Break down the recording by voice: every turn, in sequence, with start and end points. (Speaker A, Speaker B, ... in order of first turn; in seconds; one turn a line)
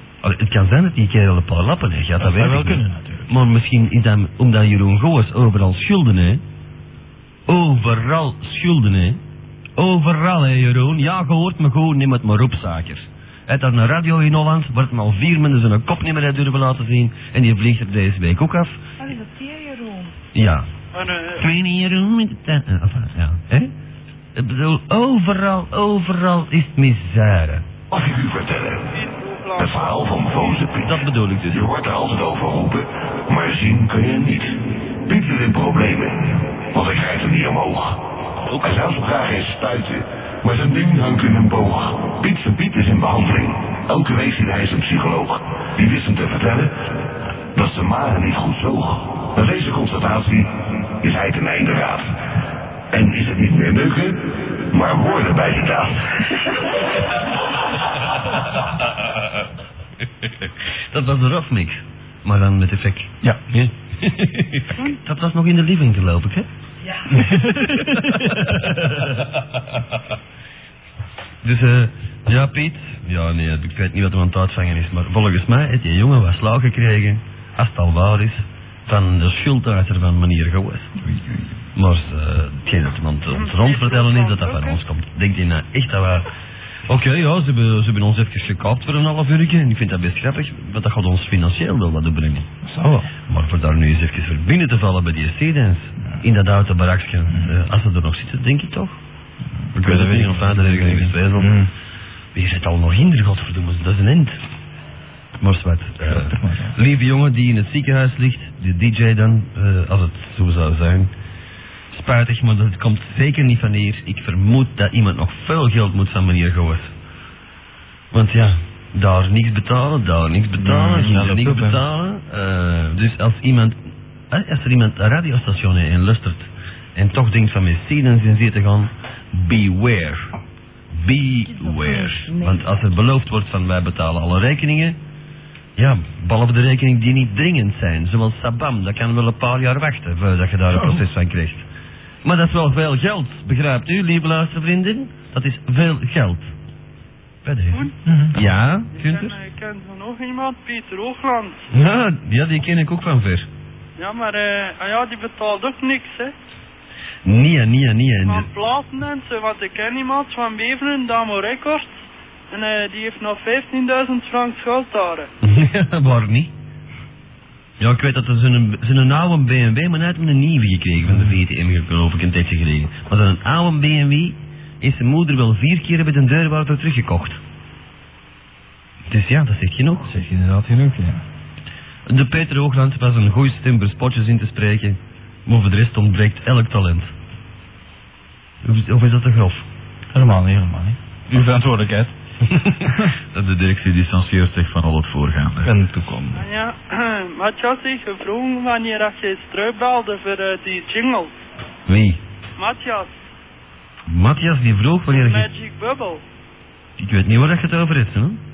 Speaker A: 0.2-6.4
Speaker B: 2.2-3.3
Speaker A: 7.5-9.2
Speaker A: 9.8-18.9
Speaker C: 19.0-20.1
Speaker A: 20.3-20.7
Speaker D: 20.9-21.5
Speaker A: 21.4-23.7
Speaker A: 24.4-27.7
Speaker E: 27.9-28.8
Speaker D: 28.9-30.7
Speaker E: 29.6-30.7
Speaker A: 30.7-31.7
Speaker E: 31.5-34.5
Speaker E: 35.1-36.1
Speaker E: 36.7-37.8
Speaker E: 38.6-46.7
Speaker E: 47.5-50.4
Speaker E: 51.0-52.0
Speaker E: 52.9-54.2
Speaker E: 54.7-55.9
Speaker A: 60.4-63.1
Speaker B: 63.2-63.7
Speaker A: 64.0-66.5
Speaker B: 67.1-68.6
Speaker A: 67.6-69.3
Speaker A: 71.4-80.9
Speaker B: 81.0-81.5
Speaker A: 81.8-86.3
Speaker D: 83.2-84.8
Speaker A: 86.9-92.5
Speaker B: 92.6-93.1
Speaker A: 93.3-99.0
Speaker B: 97.3-97.6
Speaker B: 99.7-101.7
Speaker A: 99.7-101.6
Speaker A: 102.3-104.4
Speaker A: 105.4-111.1
Speaker B: 106.0-106.8
Speaker A: 111.9-116.9
Speaker A: 118.1-123.8
Speaker B: 120.6-121.8
Speaker A: 124.3-130.3
Speaker A: 130.9-135.0
Speaker C: 131.4-132.8
Speaker A: 135.8-141.6
Speaker B: 140.7-141.0
Speaker A: 142.2-146.5
Speaker A: 147.4-149.4
Speaker B: 148.1-148.3
Speaker D: 148.9-151.7
Speaker A: 151.7-153.5
Speaker D: 154.0-156.3
Speaker A: 157.2-158.5
Speaker D: 158.2-165.3
Speaker A: 165.4-166.5
Speaker A: 167.8-177.4
Speaker B: 171.0-171.3
Speaker A: 179.1-180.1
Speaker B: 180.0-181.2
Speaker A: 182.1-187.1
Speaker A: 188.6-189.6
Speaker B: 190.1-192.1
Speaker A: 192.7-195.7
Speaker B: 192.8-193.1
Speaker B: 195.6-196.5
Speaker D: 196.3-201.4
Speaker A: 201.9-202.2
Speaker D: 202.6-203.3
Speaker A: 204.1-205.5
Speaker D: 205.1-206.2
Speaker A: 207.0-208.4